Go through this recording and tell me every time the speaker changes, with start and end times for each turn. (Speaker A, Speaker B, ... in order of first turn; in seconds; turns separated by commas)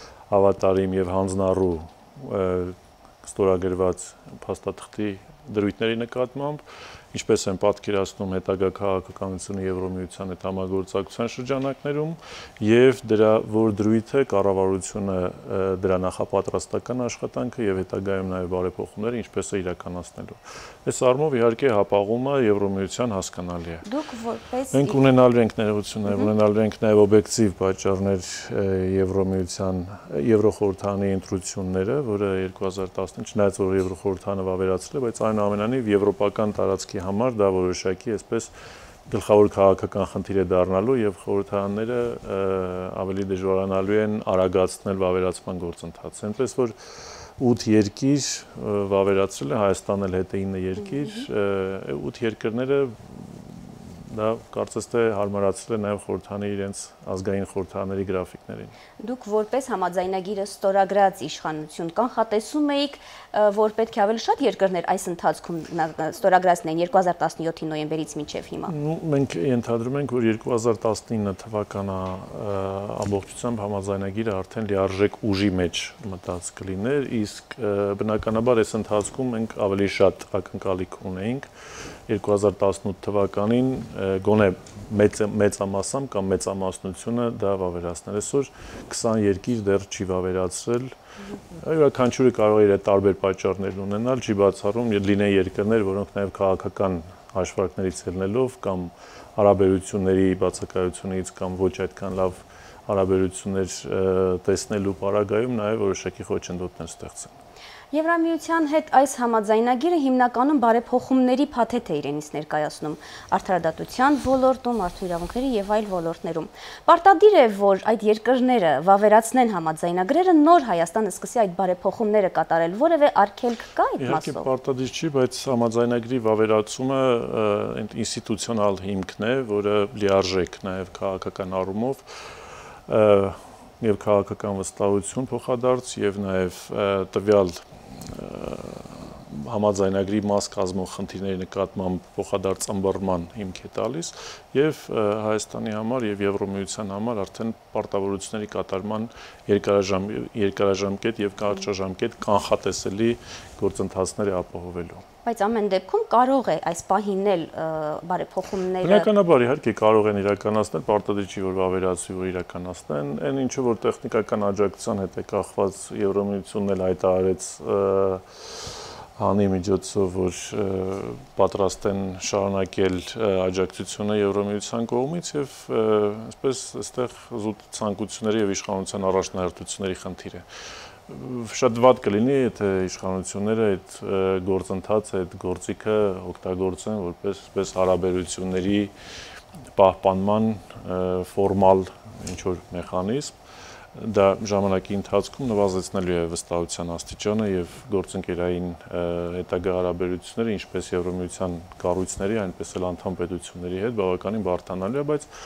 Speaker A: 0.3-23.9, Speaker B: 23.9-25.0, Speaker A: 24.7-38.5, Speaker A: 39.1-46.8, Speaker A: 47.4-53.5, Speaker B: 50.8-51.3, Speaker A: 54.1-58.7, Speaker B: 59.0-68.7, Speaker A: 68.7-81.5, Speaker A: 82.1-90.9, Speaker A: 91.5-107.3, Speaker B: 107.9-124.5, Speaker A: 124.0-155.0, Speaker B: 155.2-159.1, Speaker A: 158.8-180.4, Speaker A: 181.1-188.9, Speaker A: 189.7-193.3, Speaker A: 193.9-205.3